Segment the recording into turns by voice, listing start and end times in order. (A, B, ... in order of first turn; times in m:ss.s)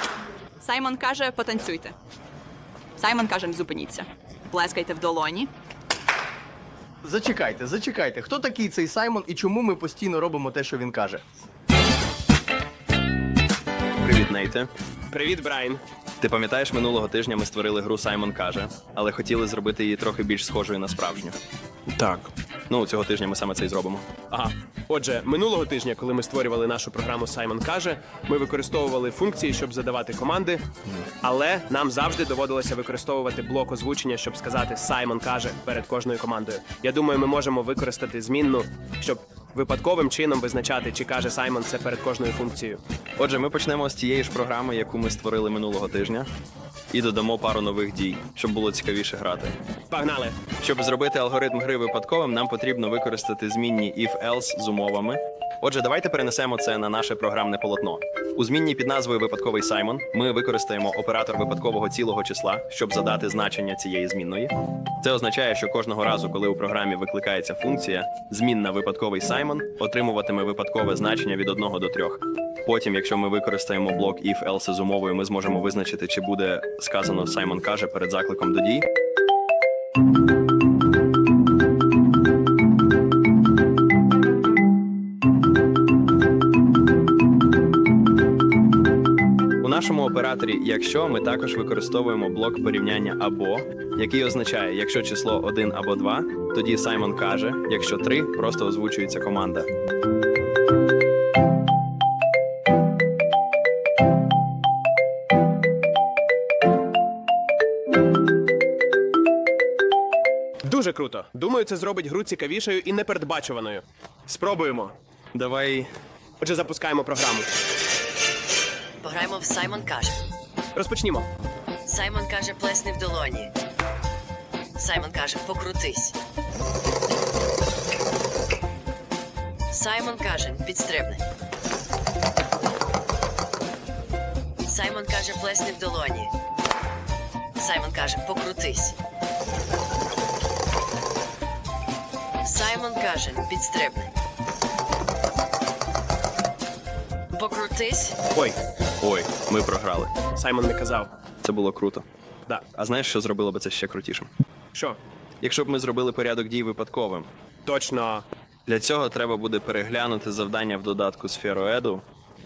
0:00.6-0:01.9 A
0:03.0-0:05.5 A
0:07.0-0:11.2 B
0:14.0-0:14.7 C
0:15.1-0:15.8 D
0:16.2-0:21.4 C
0:21.9-0:22.3 D
0:22.7-0:24.1 C
0:24.3-0:30.6 D
0:31.2-0:42.8 D
0:43.2-0:46.3 C
0:46.9-0:49.6 C
0:49.9-0:50.4 D
0:50.5-1:18.9 C
1:29.6-1:39.7 C
1:50.6-1:55.0 D
1:55.3-1:55.9 C
1:56.4-1:57.5 D
1:59.0-2:00.2 E
2:00.8-2:01.3 D
2:01.8-2:03.5 E
2:04.8-2:06.2 E
2:09.7-2:11.2 E
2:14.7-2:16.3 E
2:17.6-2:19.0 E
2:22.4-2:24.1 E
2:27.3-2:28.2 E
2:29.0-2:30.2 C
2:30.3-2:31.1 D
2:31.4-2:32.1 C
2:32.7-2:34.3 C
2:34.7-2:35.0 D
2:35.4-2:37.3 C
2:37.7-2:38.2 D
2:38.7-2:42.0 C